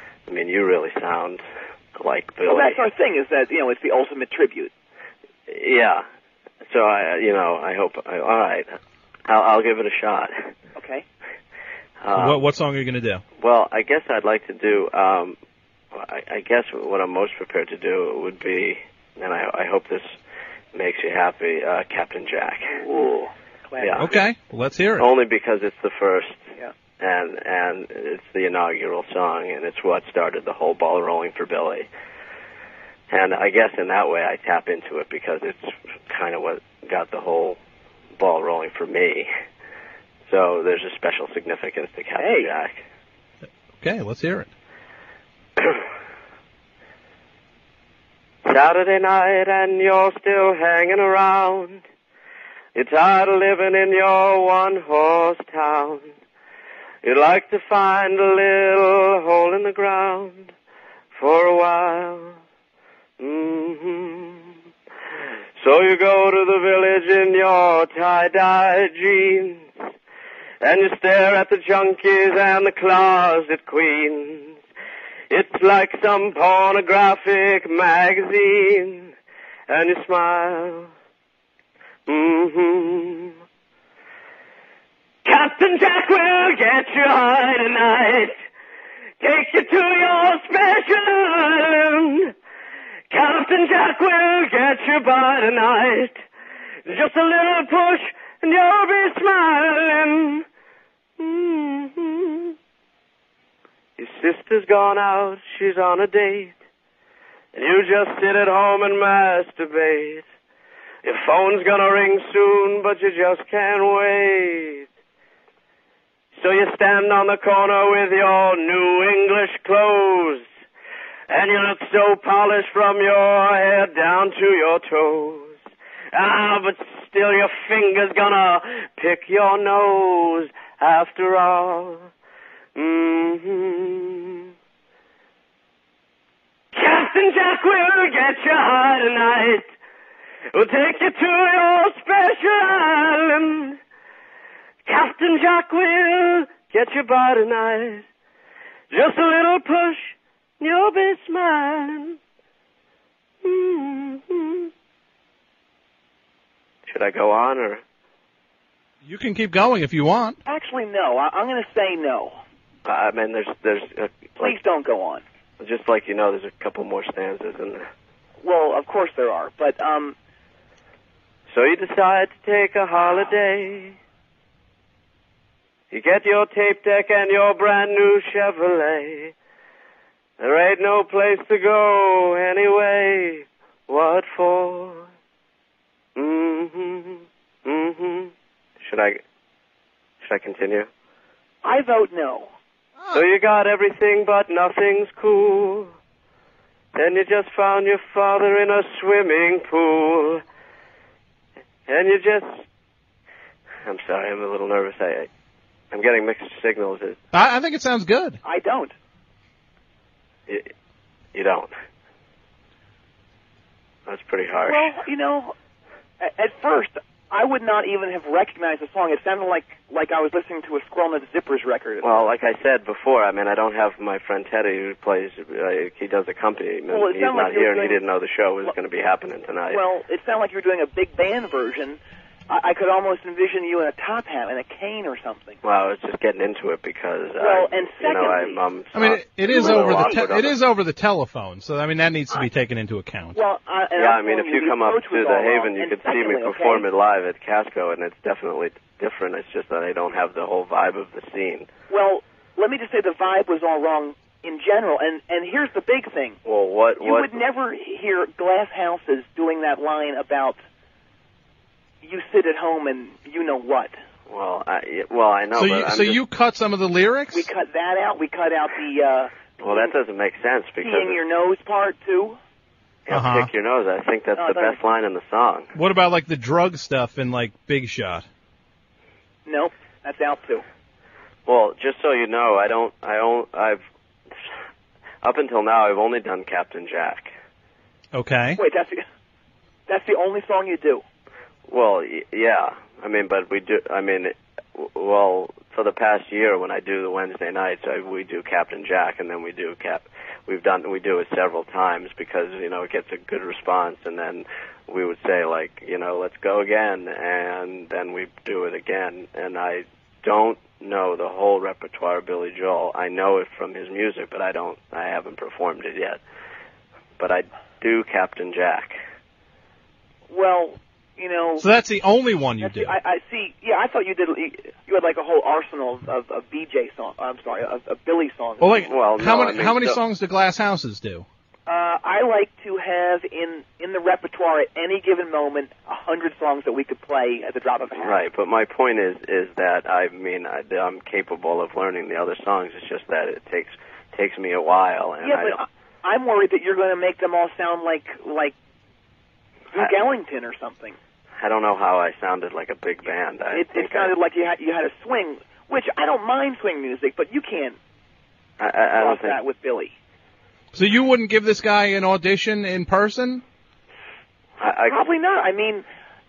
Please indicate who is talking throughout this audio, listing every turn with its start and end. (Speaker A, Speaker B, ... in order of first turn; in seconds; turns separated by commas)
Speaker A: 0.3-1.4, Speaker A: 2.0-2.8, Speaker B: 2.5-4.7, Speaker A: 5.5-6.0, Speaker A: 6.6-10.5, Speaker B: 10.7-11.0, Speaker A: 12.0-12.4, Speaker C: 12.1-13.2, Speaker A: 13.4-15.3, Speaker A: 15.9-20.1, Speaker A: 20.7-22.8, Speaker B: 22.8-24.1, Speaker A: 23.8-24.1, Speaker C: 24.0-25.1, Speaker A: 25.0-26.5, Speaker A: 27.0-31.9, Speaker A: 33.1-37.6, Speaker A: 38.2-39.3, Speaker A: 40.3-42.8, Speaker B: 42.2-42.5, Speaker C: 43.8-44.5, Speaker A: 48.4-51.8, Speaker A: 52.7-56.1, Speaker A: 57.0-60.5, Speaker A: 61.1-62.4, Speaker A: 63.2-64.4, Speaker A: 65.6-69.7, Speaker A: 70.6-74.6, Speaker A: 75.3-79.1, Speaker A: 79.7-80.9, Speaker A: 82.1-83.3, Speaker A: 85.2-88.4, Speaker A: 89.2-92.3, Speaker A: 93.1-96.2, Speaker A: 96.8-100.4, Speaker A: 101.2-102.5, Speaker A: 104.0-106.5, Speaker A: 107.5-110.2, Speaker A: 111.0-114.8, Speaker A: 116.3-120.5, Speaker A: 121.3-125.6, Speaker A: 126.1-132.1, Speaker A: 132.7-134.4, Speaker A: 136.7-139.7, Speaker A: 140.5-143.8, Speaker A: 144.8-148.0, Speaker A: 148.9-152.2, Speaker A: 153.4-154.7, Speaker A: 156.9-157.8, Speaker C: 159.0-160.4, Speaker B: 160.4-162.4, Speaker A: 162.8-164.6, Speaker B: 164.4-165.2, Speaker A: 165.6-167.8, Speaker B: 168.4-170.1, Speaker A: 171.5-173.9, Speaker A: 175.9-179.3, Speaker A: 180.4-185.1, Speaker A: 186.2-189.2, Speaker A: 190.2-190.9, Speaker B: 191.6-192.5, Speaker C: 193.0-193.2, Speaker A: 193.1-195.9, Speaker A: 196.9-200.4, Speaker A: 201.9-202.6, Speaker A: 203.8-205.3, Speaker A: 205.9-207.2, Speaker C: 207.3-208.4, Speaker B: 208.4-208.9, Speaker A: 211.3-211.7, Speaker A: 214.1-214.9, Speaker B: 214.7-215.5, Speaker B: 216.2-222.2, Speaker A: 222.0-229.8, Speaker B: 226.9-228.0, Speaker B: 229.7-235.6, Speaker A: 235.6-240.6, Speaker B: 237.4-238.6, Speaker C: 238.9-243.3, Speaker B: 239.5-240.2, Speaker B: 243.3-246.8, Speaker A: 244.0-251.7, Speaker B: 251.9-256.4, Speaker A: 256.4-257.4, Speaker B: 257.0-260.6, Speaker B: 262.0-264.0, Speaker A: 264.3-266.2, Speaker C: 265.5-267.5, Speaker B: 267.3-269.9, Speaker A: 269.6-271.2, Speaker B: 270.8-272.4, Speaker A: 273.1-275.7, Speaker C: 273.1-273.5, Speaker B: 274.4-274.8, Speaker C: 275.7-278.2, Speaker B: 279.4-280.6, Speaker A: 281.4-283.8, Speaker A: 285.2-287.3, Speaker C: 288.1-288.6, Speaker B: 288.6-289.0, Speaker B: 289.9-291.0, Speaker A: 291.7-316.2, Speaker A: 317.2-319.0, Speaker B: 320.3-321.7, Speaker C: 321.6-323.0, Speaker B: 322.6-328.9, Speaker C: 328.6-331.2, Speaker A: 328.9-330.0, Speaker B: 331.7-338.1, Speaker A: 338.0-345.6, Speaker B: 345.2-348.5, Speaker B: 349.7-351.0, Speaker A: 351.4-354.1, Speaker B: 353.5-357.8, Speaker A: 358.6-359.4, Speaker B: 359.0-359.9, Speaker C: 360.7-363.4, Speaker A: 364.6-365.0, Speaker B: 364.9-365.8